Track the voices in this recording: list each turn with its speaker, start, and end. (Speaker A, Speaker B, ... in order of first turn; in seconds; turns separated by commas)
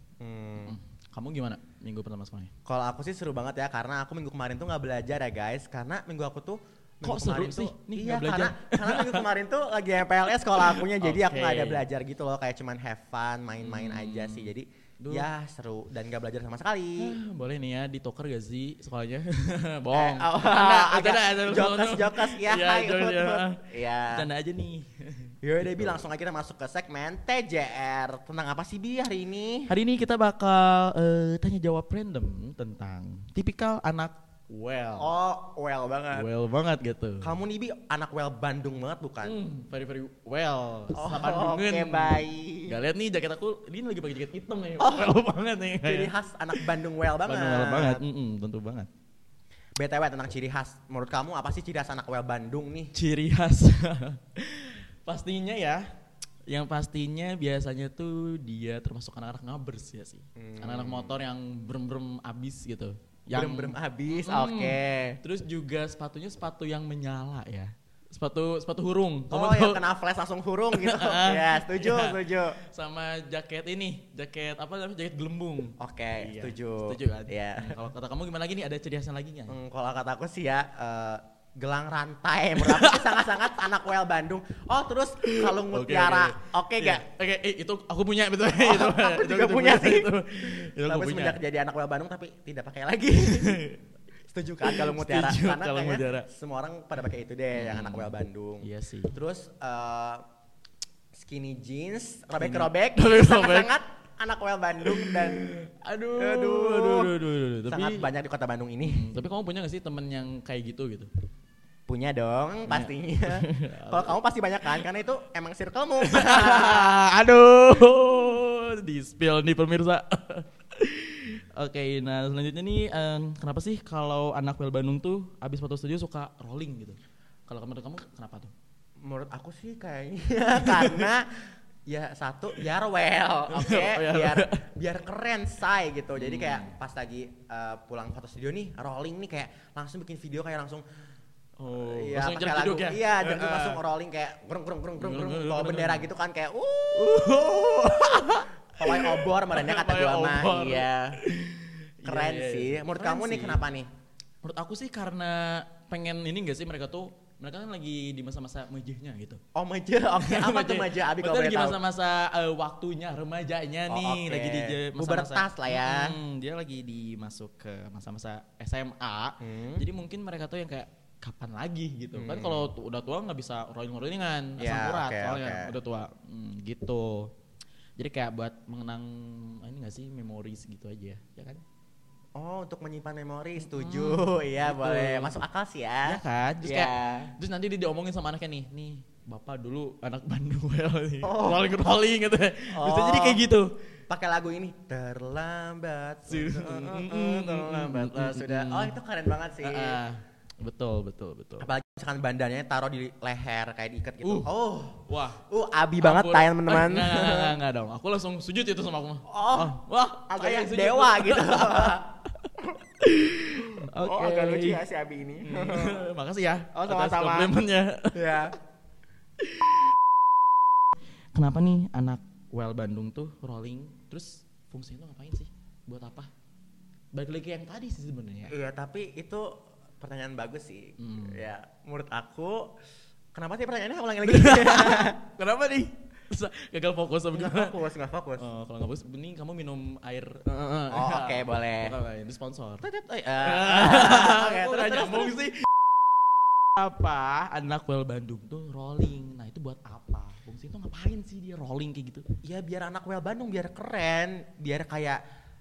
Speaker A: 0.2-0.8, Speaker B: 0.6-2.5, Speaker A: 2.7-17.2, Speaker B: 7.0-9.2, Speaker B: 10.3-11.8, Speaker B: 13.6-15.3, Speaker B: 17.0-26.0, Speaker A: 19.9-24.3, Speaker A: 25.4-29.7, Speaker B: 29.7-35.1, Speaker A: 35.0-36.3, Speaker B: 36.1-37.3, Speaker A: 37.2-39.4, Speaker B: 39.2-46.7, Speaker A: 41.0-42.8, Speaker A: 44.8-45.2, Speaker A: 45.8-48.0, Speaker B: 47.2-48.9, Speaker A: 49.8-52.9, Speaker B: 52.9-55.9, Speaker B: 56.5-69.8, Speaker A: 60.4-61.2, Speaker A: 63.3-65.2, Speaker A: 69.3-72.6, Speaker B: 70.7-79.6, Speaker A: 75.8-77.8, Speaker A: 79.5-87.0, Speaker B: 82.6-83.6, Speaker B: 85.2-91.4, Speaker A: 88.4-93.6, Speaker B: 93.2-93.8, Speaker A: 94.3-100.2, Speaker B: 94.6-96.3, Speaker B: 97.5-99.2, Speaker A: 101.1-105.4, Speaker B: 102.4-103.7, Speaker B: 104.8-108.1, Speaker A: 106.2-107.1, Speaker A: 107.7-109.1, Speaker B: 108.8-111.1, Speaker A: 111.9-117.0, Speaker B: 112.7-114.8, Speaker B: 116.0-128.5, Speaker A: 129.0-140.8, Speaker B: 130.6-131.1, Speaker B: 133.5-134.7, Speaker B: 136.2-136.8, Speaker B: 141.6-143.8, Speaker A: 141.8-151.2, Speaker B: 145.0-146.1, Speaker B: 146.9-153.6, Speaker A: 152.1-153.9, Speaker B: 154.4-159.4, Speaker A: 159.6-161.8, Speaker B: 160.2-177.3, Speaker A: 163.9-166.2, Speaker A: 169.4-169.9, Speaker A: 172.1-172.7, Speaker A: 174.6-175.8, Speaker B: 178.0-181.6, Speaker A: 182.4-187.3, Speaker B: 183.6-185.4, Speaker B: 186.1-193.7, Speaker A: 191.2-191.7, Speaker A: 192.7-193.5, Speaker A: 194.1-200.0, Speaker B: 196.3-198.9, Speaker B: 199.6-201.7, Speaker A: 201.6-207.6, Speaker B: 204.2-204.5, Speaker B: 205.1-205.4, Speaker B: 206.0-212.1, Speaker A: 209.3-212.1, Speaker B: 213.0-214.8, Speaker A: 213.6-216.1, Speaker B: 215.4-218.4, Speaker A: 216.7-217.6, Speaker A: 218.1-218.6, Speaker B: 219.4-219.9, Speaker B: 221.3-226.3, Speaker B: 227.1-228.5, Speaker A: 228.5-232.7, Speaker B: 231.0-231.4, Speaker A: 233.3-235.2, Speaker B: 234.2-237.8, Speaker A: 237.3-238.5, Speaker B: 238.4-242.9, Speaker A: 240.9-242.0, Speaker A: 242.8-245.4, Speaker B: 243.4-245.7, Speaker B: 246.7-252.3, Speaker A: 252.4-255.2